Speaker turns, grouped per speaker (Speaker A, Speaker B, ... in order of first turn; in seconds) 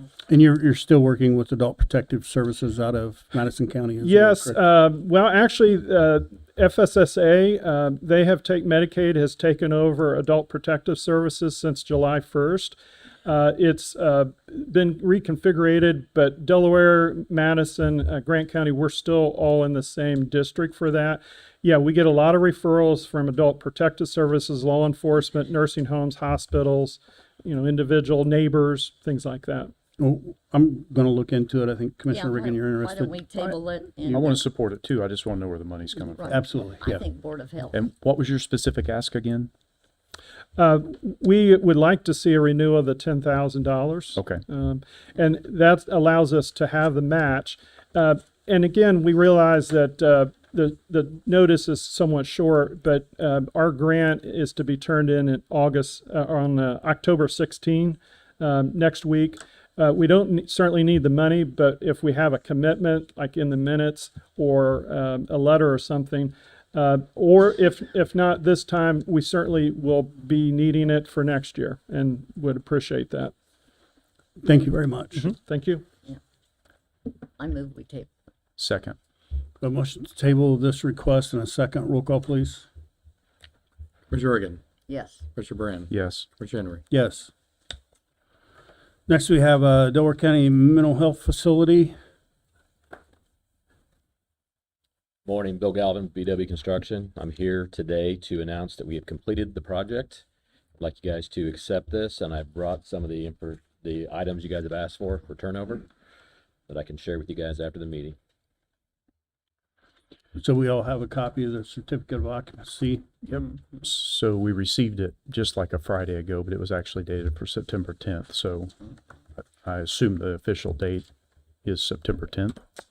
Speaker A: 0.3-4.6, 30.0-34.2, 36.2-37.0, 74.4-75.3, 79.6-82.7, 86.9-87.3, 89.1-91.9, 110.3-113.0
Speaker B: 4.0-29.7, 40.6-73.3, 75.2-75.8
Speaker C: 32.1-34.5, 36.0-37.7, 77.4-78.1, 84.8-85.2
Speaker D: 34.1-36.4, 37.7-39.5, 44.2-44.4, 78.6-79.0, 85.9-86.3, 113.2-118.7, 119.5-121.1, 121.6-122.6
Speaker E: 84.1-84.7, 85.3-86.8
Speaker F: 95.2-100.2, 100.8-105.9, 106.7-108.2